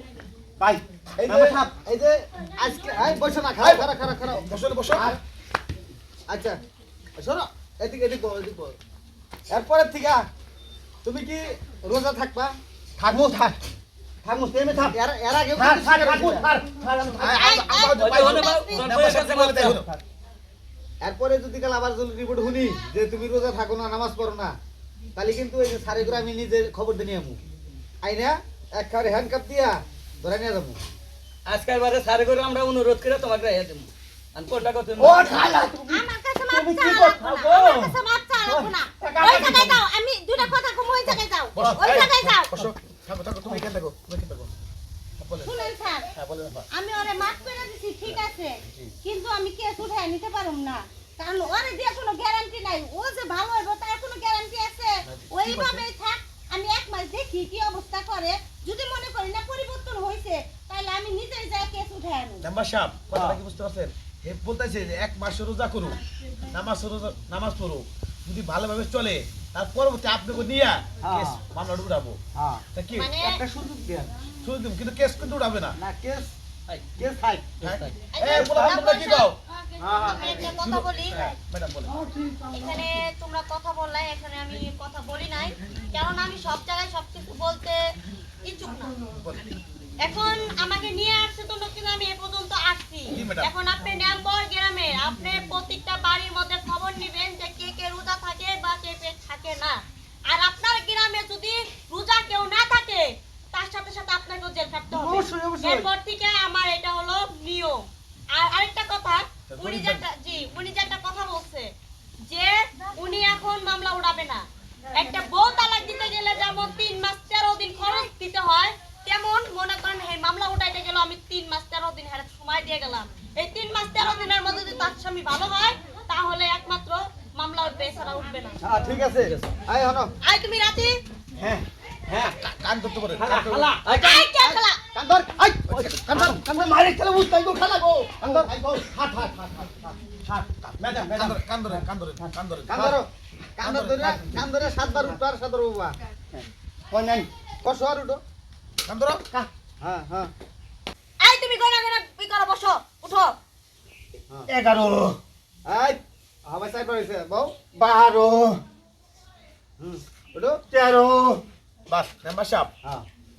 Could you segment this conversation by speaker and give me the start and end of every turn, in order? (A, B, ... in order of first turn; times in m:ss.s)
0:00.6-0:01.6 A
0:01.2-0:01.6 B
0:01.5-0:04.4 C
0:03.6-0:05.1 B
0:06.3-0:06.6 C
0:07.2-0:08.8 C
0:09.5-0:10.3 C
0:11.0-0:12.6 C
0:13.0-0:13.6 A
0:14.2-0:15.0 A
0:14.9-0:16.5 C
0:15.5-0:17.5 A
0:17.2-0:19.9 B
0:17.4-0:18.9 D
0:17.5-0:18.8 E
0:17.9-0:19.8 F
0:19.7-0:20.0 A
0:21.0-0:24.6 C
0:25.2-0:27.4 C
0:28.0-0:30.8 C
0:31.5-0:35.5 F
0:35.0-0:39.8 A
0:35.3-0:35.7 B
0:35.9-0:42.5 E
0:41.6-0:44.6 B
0:41.6-0:42.1 A
0:45.2-0:45.5 B
0:45.4-0:46.1 E
0:46.1-0:46.6 B
0:46.7-1:02.4 E
0:55.0-0:55.8 B
1:02.4-1:12.2 B
1:03.1-1:03.4 C
1:11.0-1:11.4 C
1:12.4-1:12.6 C
1:12.7-1:13.2 B
1:13.0-1:13.4 D
1:13.2-1:14.1 C
1:14.4-1:15.8 B
1:15.8-1:16.3 C
1:16.7-1:17.0 F
1:17.0-1:17.6 C
1:17.6-1:19.4 B
1:17.6-1:18.1 F
1:18.1-1:19.3 D
1:18.2-1:18.8 C
1:19.8-1:20.5 C
1:19.9-1:21.4 D
1:20.5-1:21.9 B
1:22.5-1:27.9 D
1:28.4-1:28.9 D
1:30.0-1:51.7 D
1:33.1-1:33.5 B
1:45.0-1:45.9 C
1:49.5-1:50.0 B
1:52.2-2:08.6 D
2:08.6-2:10.1 C
2:10.2-2:11.0 D
2:11.4-2:11.6 A
2:12.1-2:13.7 B
2:13.2-2:15.6 C
2:13.7-2:14.2 F
2:13.9-2:14.8 D
2:15.6-2:20.0 A
2:15.7-2:16.3 B
2:18.2-2:18.8 C
2:20.4-2:23.0 B
2:20.9-2:21.8 A
2:22.7-2:26.0 C
2:23.6-2:24.2 A
2:23.7-2:24.1 B
2:26.3-2:27.3 A
2:27.6-2:28.2 C
2:28.9-2:29.2 B
2:29.8-2:30.3 C
2:31.2-2:33.3 D
2:34.5-2:35.2 A
2:35.6-2:37.6 C
2:37.8-2:38.6 A
2:39.8-2:40.6 C
2:40.7-2:41.4 A
2:41.9-2:42.7 B